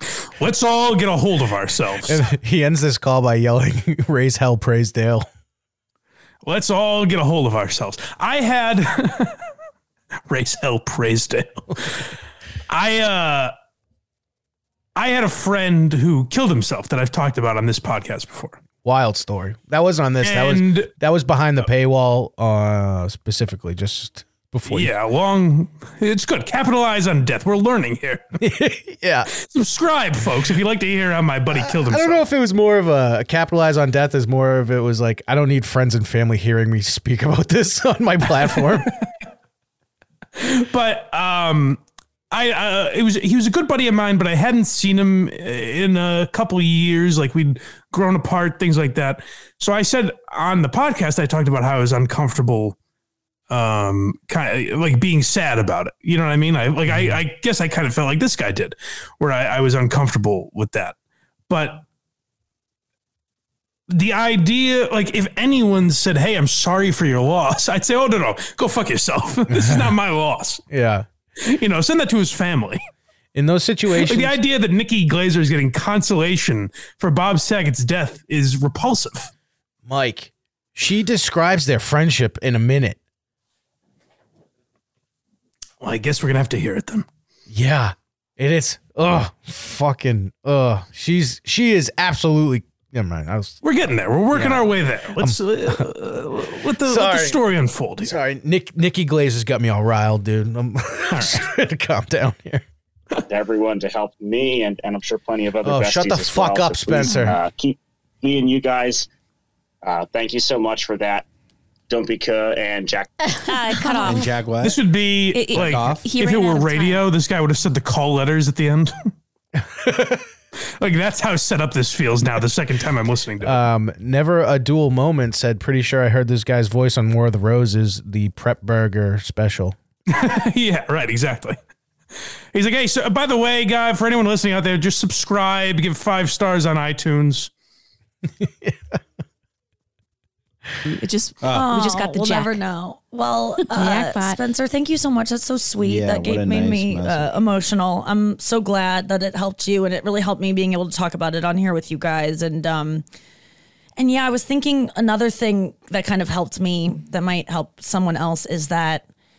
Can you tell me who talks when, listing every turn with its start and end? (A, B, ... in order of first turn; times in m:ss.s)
0:00.1-0:02.2 A
0:02.1-0:05.2 B
0:06.4-0:09.4 A
0:10.3-0:12.1 A
0:12.7-0:13.5 A
0:14.9-0:18.6 A
0:18.8-0:24.9 B
0:20.2-0:20.9 A
0:24.7-0:28.2 A
0:28.4-0:29.3 B
0:29.3-0:32.2 A
0:31.5-0:38.9 B
0:40.4-0:41.8 A
0:42.3-0:52.8 A
0:53.5-1:00.9 A
1:01.5-1:01.8 A
1:03.9-1:10.6 A
1:09.5-1:09.9 B
1:10.7-1:11.0 B
1:11.4-1:12.8 A
1:13.3-1:14.4 B
1:13.9-1:19.3 A
1:19.8-1:23.0 B
1:25.8-1:27.0 A
1:27.5-1:33.6 B
1:33.6-1:38.2 A
1:34.3-1:34.7 B
1:35.2-1:35.8 B
1:36.8-1:37.4 B
1:38.0-1:42.6 B
1:41.1-1:41.4 A
1:43.3-1:49.1 C
1:45.6-1:47.4 B
1:49.8-1:51.2 C
1:51.9-1:53.2 C
1:53.4-1:54.3 D
1:53.5-1:54.2 E
1:54.0-1:54.8 F
1:54.6-1:59.1 A
1:55.3-1:57.0 D
1:55.5-1:56.1 F
1:59.8-2:00.2 B
2:00.8-2:03.6 A
2:03.4-2:09.8 B
2:10.1-2:11.6 A
2:12.5-2:17.5 A
2:18.4-2:18.8 B
2:20.8-2:22.6 D
2:21.5-2:33.0 E
2:23.6-2:24.4 D
2:25.8-2:27.4 F
2:34.0-2:39.0 E